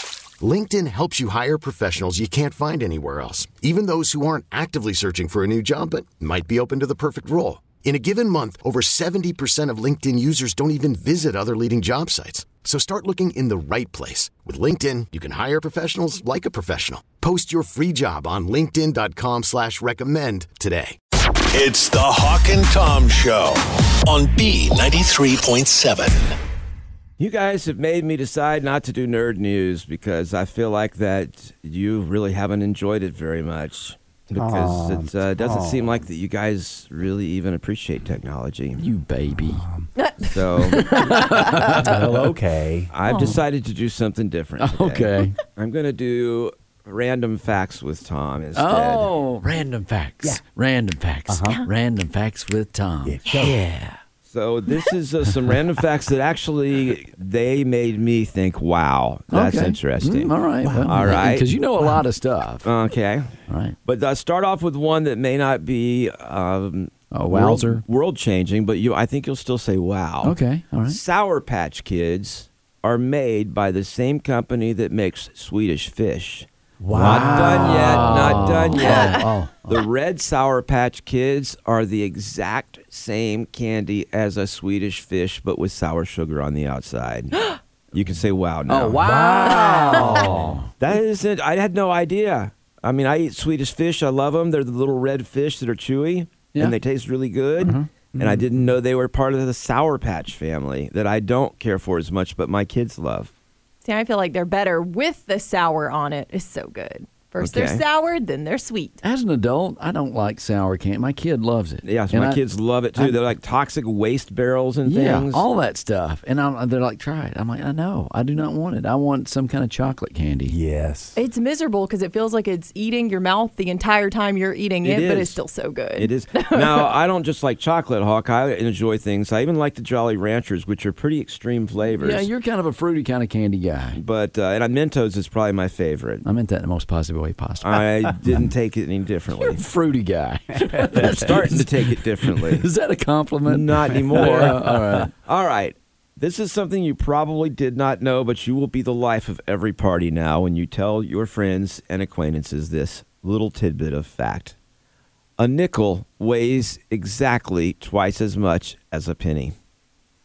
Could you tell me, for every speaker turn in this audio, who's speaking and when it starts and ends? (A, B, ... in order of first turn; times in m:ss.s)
0:00.4-0:21.0 A
0:21.5-0:26.2 B
0:27.2-0:38.8 C
0:34.3-0:36.0 D
0:38.8-0:39.6 E
0:39.4-0:39.9 D
0:40.0-0:41.7 F
0:40.3-0:41.0 C
0:40.8-0:42.0 E
0:41.7-0:42.9 D
0:42.9-0:49.1 C
0:43.0-0:43.4 F
0:44.6-0:45.4 E
0:48.5-0:54.0 E
0:51.3-0:51.6 D
0:53.0-0:53.6 D
0:54.2-1:01.5 C
0:59.3-1:02.7 E
1:00.6-1:01.2 D
1:02.6-1:03.3 C
1:03.5-1:03.8 E
1:03.8-1:29.0 C
1:07.1-1:07.8 E
1:10.2-1:11.0 E
1:16.8-1:19.8 E
1:16.9-1:18.2 D
1:18.8-1:19.3 F
1:28.7-1:30.7 E
1:29.0-1:30.6 D
1:30.8-1:43.3 C
1:37.6-1:37.8 E
1:38.1-1:38.6 D
1:43.8-1:49.0 F
1:47.4-1:47.8 C
1:49.0-1:52.4 E
1:51.8-1:55.4 C
1:52.9-1:53.2 E
1:54.8-2:00.6 E
2:00.4-2:01.2 D
2:01.2-2:06.9 F
2:04.8-2:05.4 C
2:06.0-2:12.3 C
2:12.0-2:14.0 E
2:13.9-2:16.2 C
2:16.2-2:18.5 E
2:17.6-2:19.6 C
2:19.4-2:25.1 E
2:20.8-2:21.3 D
2:20.9-2:22.7 C
2:23.4-2:34.5 C
2:24.1-2:24.5 D
2:35.4-2:39.5 C